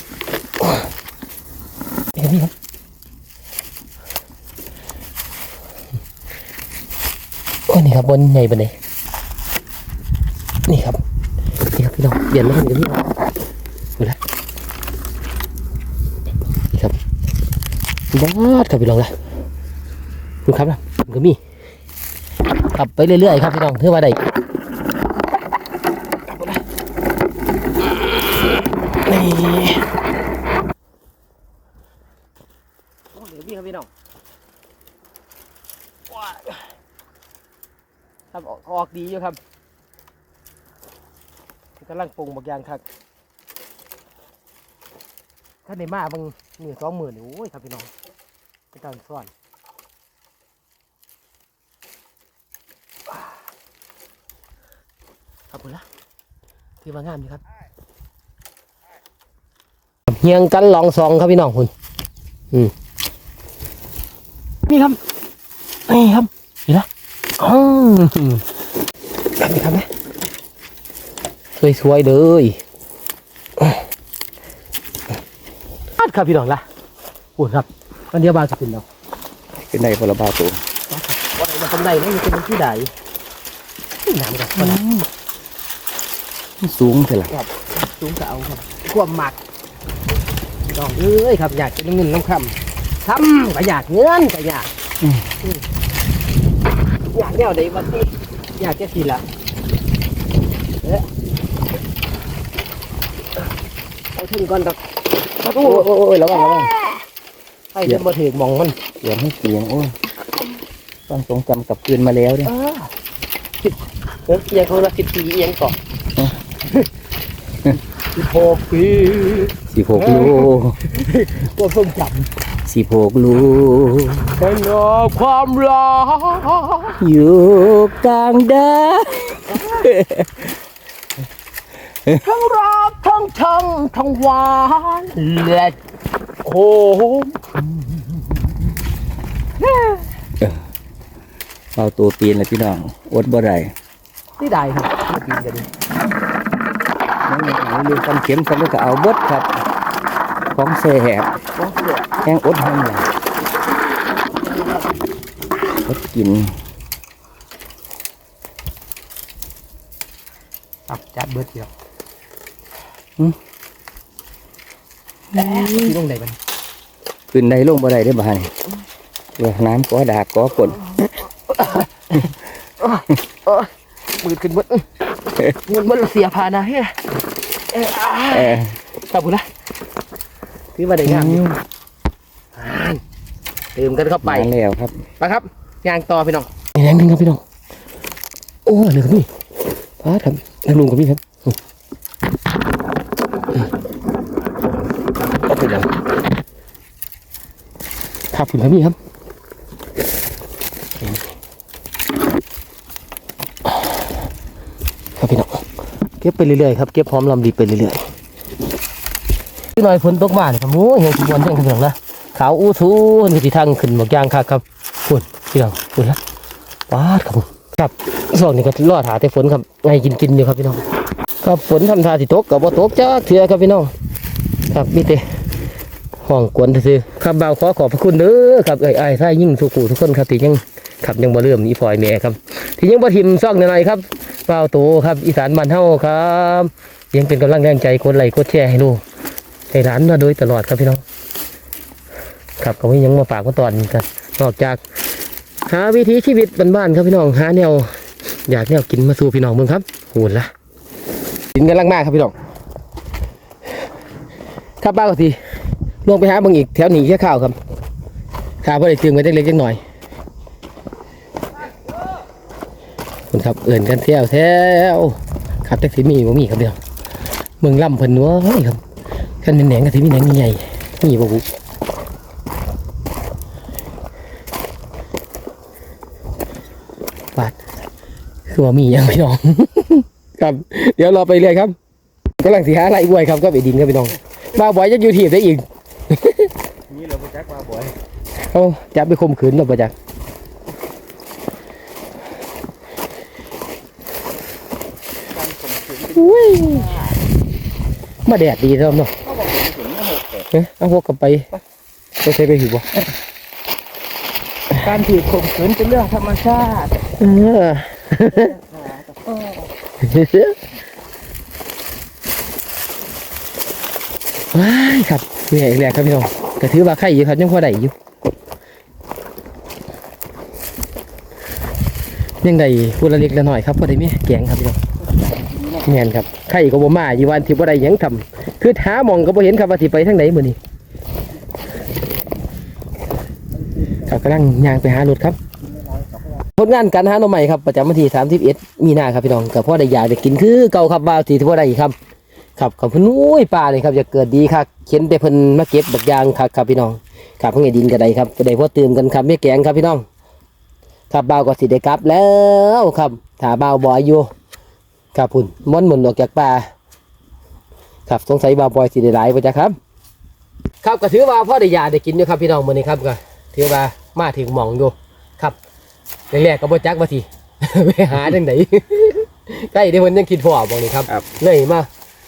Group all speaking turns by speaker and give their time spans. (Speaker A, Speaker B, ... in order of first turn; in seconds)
Speaker A: 2.1-2.5, 7.7-8.7, 10.7-11.0, 11.7-13.1, 18.1-19.1, 20.5-21.4, 22.7-24.2, 29.1-29.8, 33.1-33.9, 36.2-36.5, 38.3-39.4, 41.8-42.8, 45.7-47.9, 48.7-49.3, 55.5-55.9, 56.8-57.4, 60.1-61.7, 64.7-65.0, 65.9-66.9, 67.4-68.4, 69.4-69.9, 71.6-72.6, 76.0-76.6, 77.4-78.8, 80.9-82.9, 84.0-84.8, 87.3-89.4, 90.7-94.7, 97.1-99.2, 104.2-104.8, 105.5-105.9, 107.7-108.8, 112.4-112.9, 114.3-115.8, 118.2-122.3, 124.3-127.0, 129.5-129.9, 132.2-135.8, 136.4-137.5, 139.7-140.0, 144.4-145.7, 151.6-152.1, 154.3-154.9, 160.9-161.7, 165.3-166.4, 171.0-172.3, 172.8-174.9, 175.5-177.0, 177.7-179.5, 180.8-181.4, 182.6-183.0, 183.8-184.5, 185.2-187.4, 188.7-189.3, 190.0-191.6, 195.5-195.9, 198.3-199.0, 201.0-201.3, 205.2-205.6, 206.2-208.0, 209.8-216.2, 216.9-220.8, 221.4-223.9, 224.7-225.2, 226.2-239.0, 239.7-241.0, 242.6-244.8, 245.7-247.9, 248.5-250.5, 251.5-252.3, 254.8-255.4, 256.1-257.6, 258.6-259.8, 263.3-266.8, 267.6-268.8, 269.4-271.5, 278.5-281.8, 282.4-286.5, 288.5-289.9, 296.1-296.9, 298.2-299.1, 300.5-301.5, 302.2-302.9, 307.1-308.6, 310.0-310.6, 314.5-317.9, 322.4-324.8, 325.8-330.6, 334.0-335.4, 336.6-341.9, 342.6-350.0, 351.1-354.3, 355.1-356.6, 358.1-359.8, 360.8-365.6, 366.3-371.9
Speaker B: 79.5-80.6, 84.6-85.1, 86.6-87.3, 105.4-106.7, 109.0-109.9, 111.1-112.5, 119.7-120.8, 122.7-124.3, 127.0-130.5, 141.8-143.7, 147.3-149.5, 150.5-151.3, 152.2-153.1, 155.9-156.6, 165.3-165.9, 167.3-168.5, 169.4-170.8, 178.3-178.8, 181.1-181.6, 184.2-184.9
Speaker C: 286.9-287.9, 295.4-297.1, 299.2-300.4, 305.5-306.4, 308.4-309.6